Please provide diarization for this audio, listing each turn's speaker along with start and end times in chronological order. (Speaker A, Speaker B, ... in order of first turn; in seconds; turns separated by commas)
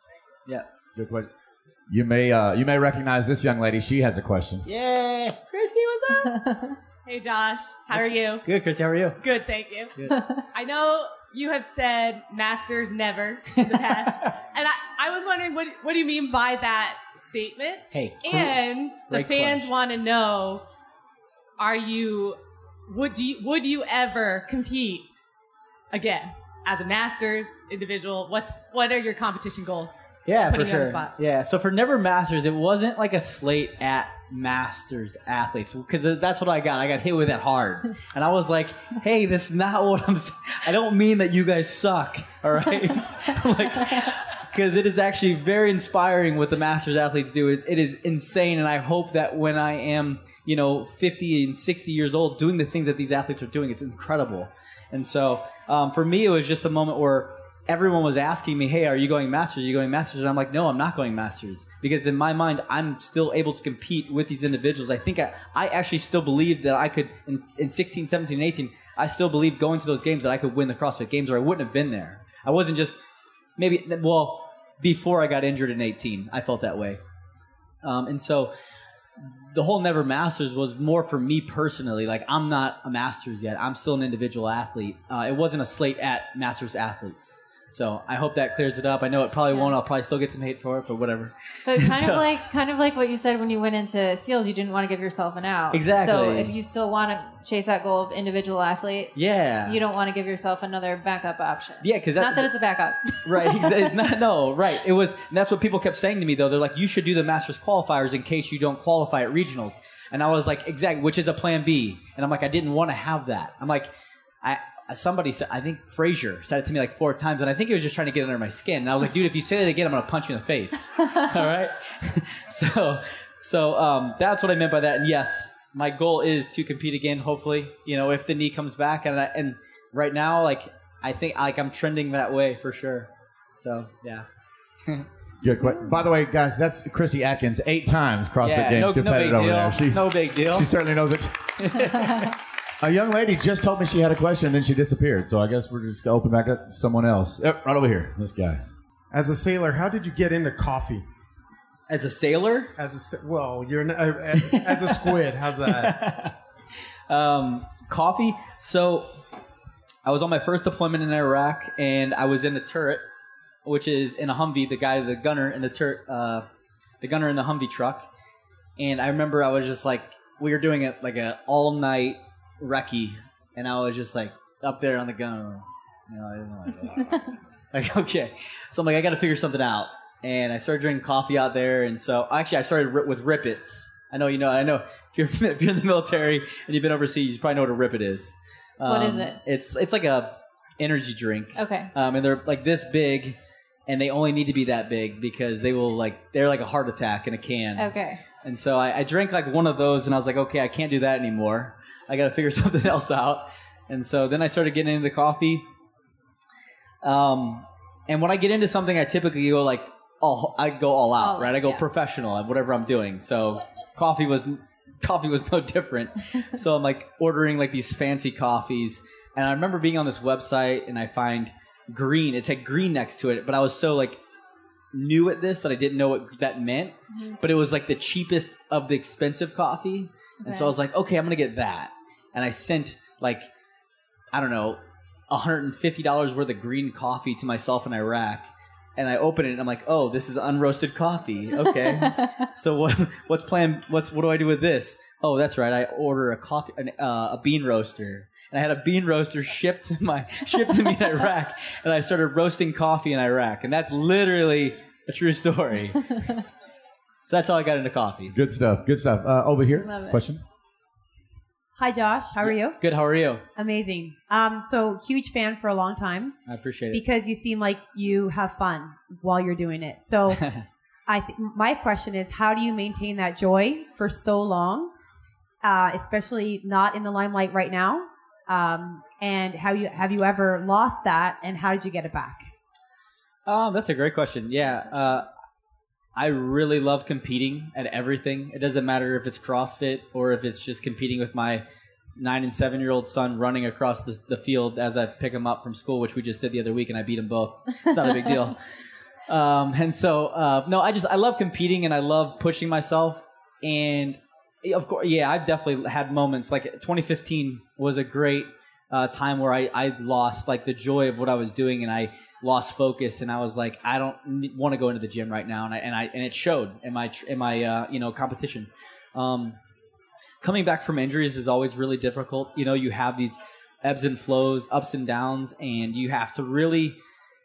Speaker A: 0.9-1.3, Speaker A: 1.9-4.7, Speaker B: 4.7-6.3, Speaker C: 6.3-6.8, Speaker D: 7.1-8.4, Speaker B: 8.0-9.2, Speaker D: 9.2-20.6, Speaker C: 10.1-10.4, Speaker B: 13.6-14.3, Speaker B: 17.9-19.7, Speaker D: 21.6-25.1, Speaker D: 25.9-31.1, Speaker B: 30.3-73.0, Speaker B: 73.6-77.0, Speaker B: 77.8-78.5, Speaker B: 79.2-92.2, Speaker C: 91.7-103.9, Speaker B: 95.7-96.5, Speaker B: 99.2-99.8, Speaker B: 101.8-102.5, Speaker B: 103.2-134.3, Speaker A: 135.4-141.9, Speaker B: 138.4-140.7, Speaker B: 141.6-142.3, Speaker A: 142.8-148.6, Speaker E: 149.1-151.1, Speaker B: 151.9-152.7, Speaker E: 152.8-156.0, Speaker B: 154.3-156.4, Speaker B: 157.1-159.1, Speaker B: 160.1-163.0, Speaker B: 163.7-166.4, Speaker B: 167.0-168.1, Speaker B: 168.8-197.9, Speaker C: 188.9-189.4, Speaker C: 191.6-191.9, Speaker C: 197.8-198.2, Speaker B: 198.4-205.7, Speaker B: 207.0-224.2, Speaker C: 211.2-211.8, Speaker B: 224.9-233.5, Speaker C: 227.1-227.4, Speaker C: 230.4-230.7, Speaker B: 234.3-256.4, Speaker B: 257.3-258.3, Speaker A: 258.3-260.4, Speaker C: 259.8-260.2, Speaker F: 261.8-262.8, Speaker B: 262.4-263.4, Speaker F: 263.6-266.4, Speaker B: 266.5-267.0, Speaker F: 266.9-270.4, Speaker B: 270.4-270.6, Speaker F: 271.1-274.9, Speaker F: 275.6-282.5, Speaker B: 283.5-285.3, Speaker B: 286.2-298.6, Speaker B: 299.3-319.6, Speaker B: 320.4-327.0